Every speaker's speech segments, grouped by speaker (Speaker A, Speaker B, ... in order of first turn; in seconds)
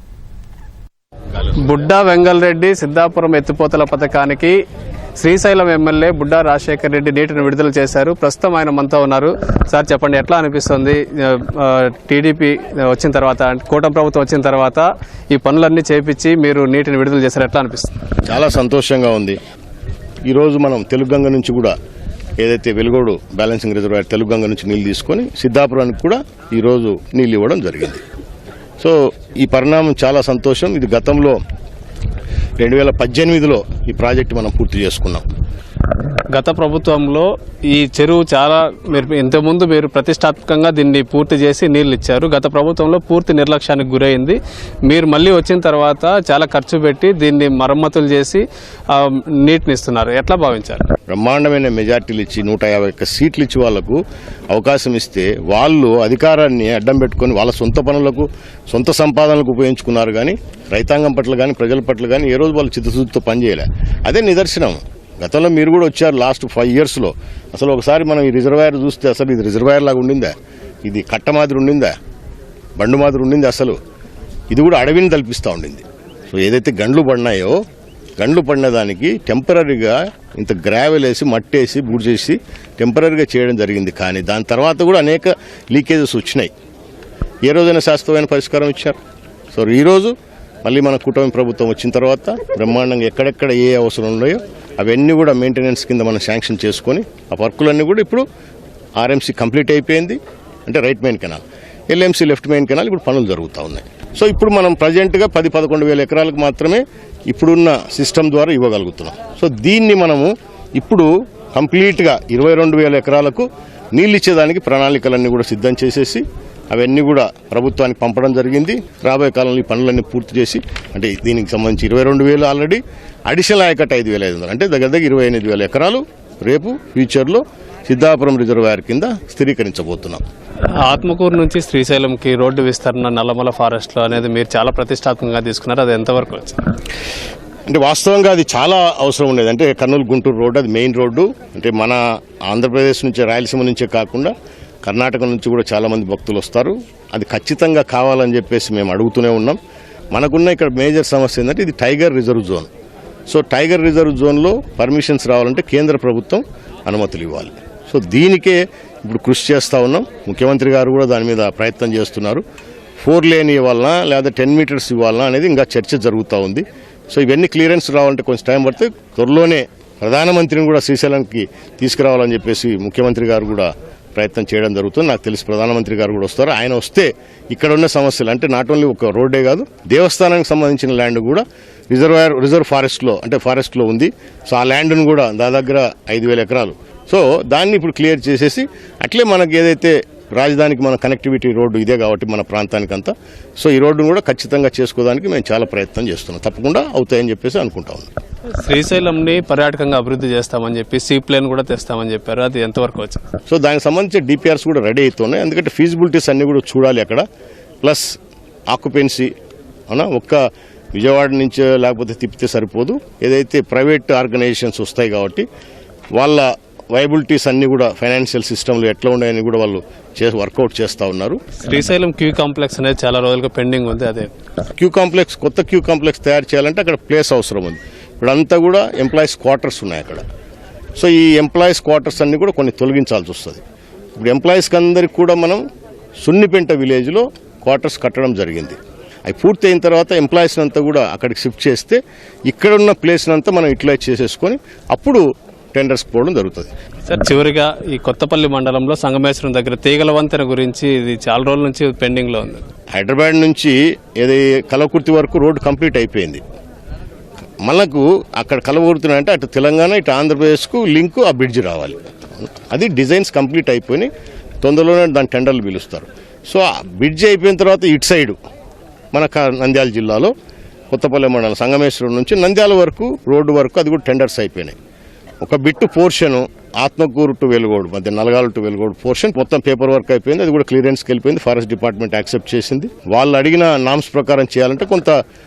Speaker A: 1.6-4.6, 5.2-17.9, 36.3-50.9, 130.8-136.6, 198.6-203.2, 221.6-224.3, 247.1-252.7
Speaker B: 18.2-19.4, 20.3-21.7, 22.4-28.0, 28.8-31.4, 32.6-35.2, 51.1-70.3, 70.9-71.9, 72.8-73.8, 74.5-77.6, 78.2-86.5, 87.5-89.0, 89.5-98.2, 99.0-130.2, 137.7-149.6, 150.1-152.7, 153.3-162.4, 163.0-198.1, 203.5-207.2, 207.8-208.2, 208.7-209.3, 209.9-215.4, 216.1-221.4, 224.8-230.2, 231.0-233.6, 234.2-235.6, 236.2-246.7, 252.9-256.4, 257.6-264.1, 264.6-268.4, 269.1-270.3, 270.9-274.8, 275.4-285.2